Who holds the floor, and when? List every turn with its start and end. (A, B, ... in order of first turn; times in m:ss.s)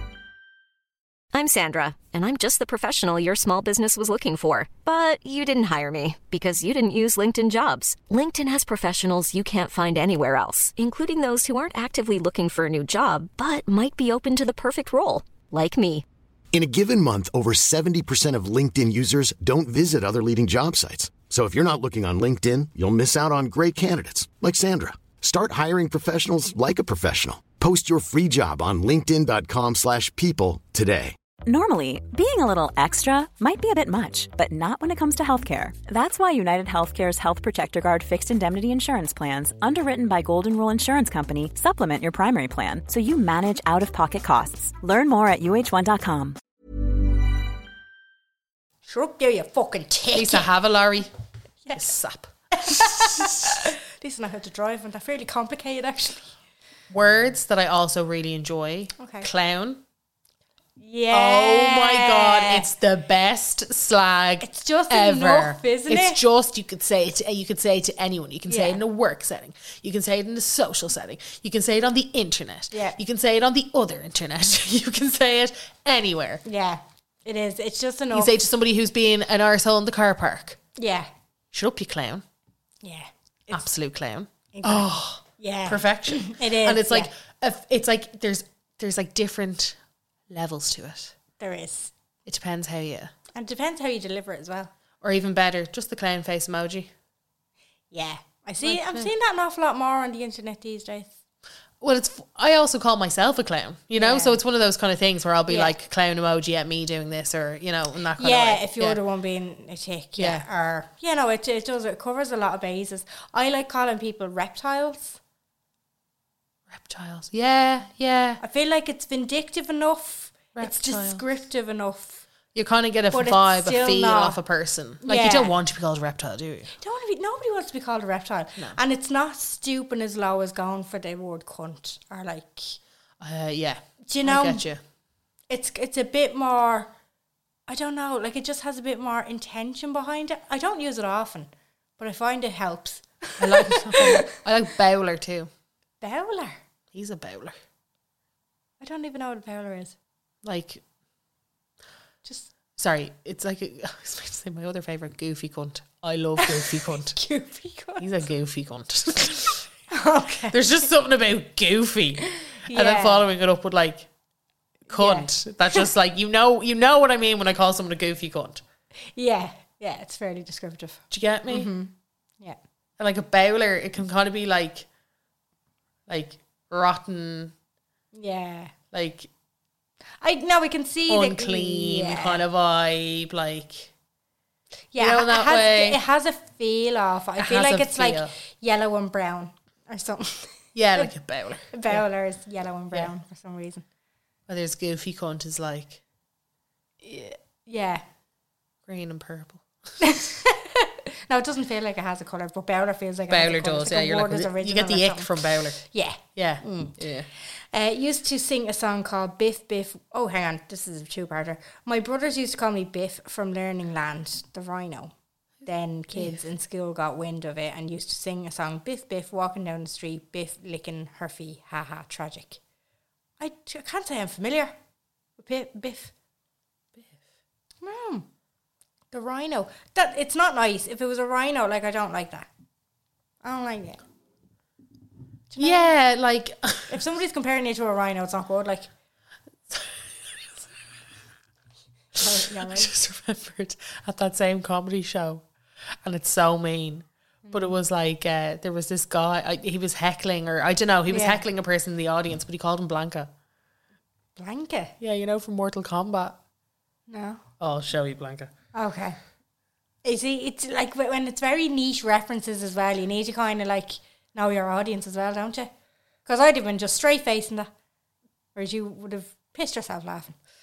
0:01.3-0:16.0 A
0:16.5-0:31.2 B
0:31.5-0:46.4 C
0:48.9-0:50.5 D
0:50.1-0:51.1 E
0:51.6-0:51.9 D
0:51.8-0:53.7 E
0:52.5-0:56.4 D
0:56.9-0:59.8 E
0:59.0-0:59.3 D
1:00.8-1:02.7 D
1:01.1-1:16.4 E
1:04.4-1:06.2 D
1:08.5-1:08.8 D
1:12.7-1:13.0 D
1:16.4-1:18.3 D
1:18.1-1:20.6 E
1:20.8-1:21.1 D
1:21.5-1:22.2 E
1:22.8-1:23.7 D
1:23.5-1:29.8 E
1:24.5-1:27.1 D
1:30.3-1:31.2 E
1:31.4-1:31.9 D
1:32.3-1:33.1 E
1:33.3-1:34.7 D
1:35.0-1:36.9 E
1:37.9-1:41.1 D
1:38.6-1:39.1 E
1:41.8-1:49.0 E
1:44.0-1:44.4 D
1:45.5-1:45.8 D
1:48.2-1:55.2 D
1:50.2-1:50.4 E
1:56.7-1:58.4 E
1:58.4-2:02.2 D
2:00.6-2:01.2 E
2:02.6-2:06.7 E
2:03.1-2:04.4 D
2:05.0-2:05.6 D
2:06.8-2:12.8 D
2:13.2-2:14.8 E
2:14.1-2:14.6 D
2:15.5-2:16.9 D
2:17.7-2:24.3 D
2:23.4-2:25.5 E
2:26.0-2:26.6 D
2:26.9-2:27.6 E
2:28.8-2:30.0 D
2:30.4-2:30.8 E
2:32.2-2:32.5 D
2:32.8-2:37.2 E
2:36.4-2:38.2 D
2:38.0-2:39.7 E
2:39.9-2:40.6 D
2:40.5-2:44.1 E
2:42.5-2:43.3 D
2:44.9-2:48.6 E
2:44.9-2:45.8 D
2:49.1-2:52.6 D
2:51.1-2:51.7 E
2:53.0-2:54.9 E
2:56.1-2:57.5 E
2:58.1-2:58.7 D
2:58.9-2:59.3 E
3:00.2-3:02.4 D
3:01.1-3:03.9 E
3:04.9-3:11.1 D
3:05.0-3:06.0 E
3:07.4-3:08.3 E
3:10.8-3:12.0 E
3:11.7-3:13.8 D
3:14.5-3:16.0 E
3:17.0-3:18.0 D
3:18.9-3:19.6 E
3:20.0-3:35.1 D
3:23.3-3:25.8 E
3:26.4-3:27.3 E
3:35.6-3:42.6 D
3:43.4-3:44.7 D
3:45.4-3:46.1 D
3:47.8-3:48.3 D
3:49.1-3:52.5 D
3:53.4-3:54.0 D
3:55.5-3:55.9 D
3:55.6-3:57.0 E
3:56.9-3:58.9 D
3:59.7-4:00.7 E
4:02.2-4:02.9 D
4:02.2-4:05.4 E
4:06.0-4:13.3 E
4:07.5-4:07.8 D
4:11.1-4:11.4 D
4:14.4-4:14.9 D
4:15.0-4:16.4 E
4:17.1-4:17.4 D
4:17.6-4:18.5 E
4:18.7-4:19.2 D
4:20.0-4:25.7 D
4:26.3-4:27.7 D
4:28.6-4:30.4 D